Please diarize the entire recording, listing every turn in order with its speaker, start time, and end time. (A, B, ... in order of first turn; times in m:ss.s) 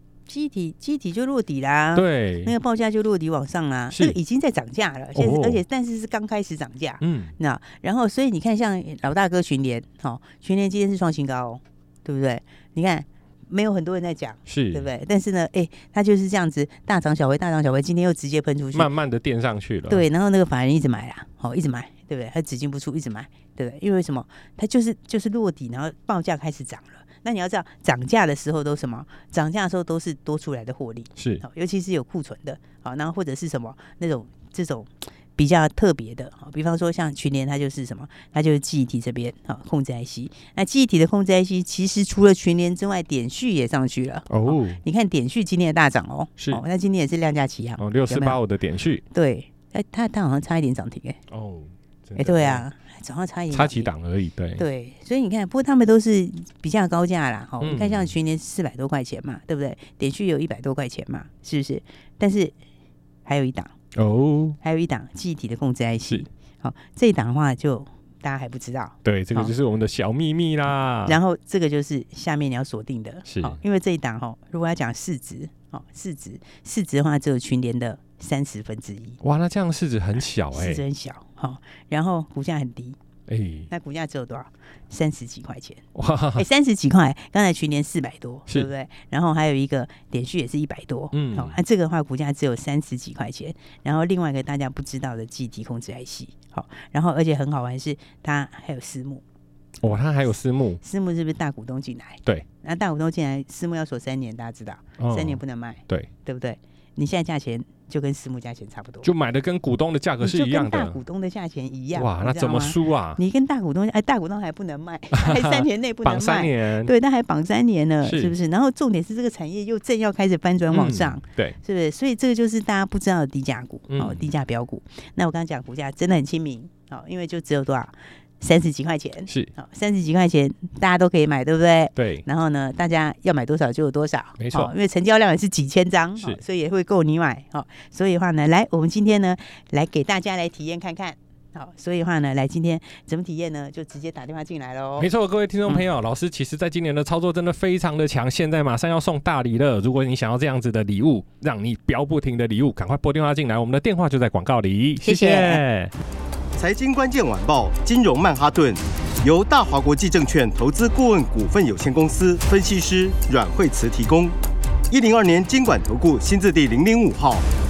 0:00.3-0:18.9 A
0:01.9-0:02.5 B
0:03.9-0:04.2 B
0:05.1-0:05.6 B
0:07.0-0:07.4 B
0:14.5-0:14.9 B
0:18.7-0:20.1 B
0:19.9-0:48.4 A
0:31.2-0:31.4 B
0:44.3-0:44.8 B
0:47.8-0:49.0 B
0:49.1-0:51.2 A
0:51.3-0:52.7 B
0:52.2-0:53.9 A
0:53.5-0:54.6 B
0:54.6-1:02.6 A
0:57.6-0:58.1 B
1:03.2-1:03.7 A
1:04.0-1:04.6 B
1:04.6-1:09.6 A
1:09.0-1:11.2 B
1:11.1-1:19.2 A
1:13.3-1:13.6 B
1:19.2-1:20.8 B
1:20.5-1:23.0 A
1:23.3-1:23.7 B
1:23.7-1:25.8 A
1:26.0-1:26.4 B
1:26.4-1:39.2 A
1:31.1-1:31.6 B
1:39.8-1:40.8 B
1:40.8-1:49.1 A
1:45.0-1:46.1 B
1:49.0-1:51.0 B
1:50.2-2:25.1 A
1:51.9-1:53.2 B
1:55.1-1:56.9 B
1:58.0-1:58.4 B
2:00.7-2:01.6 B
2:03.9-2:04.3 B
2:12.0-2:12.2 B
2:14.4-2:14.7 B
2:25.0-2:35.9 B
2:35.0-2:35.6 A
2:36.6-2:44.4 C
2:44.9-2:47.5 C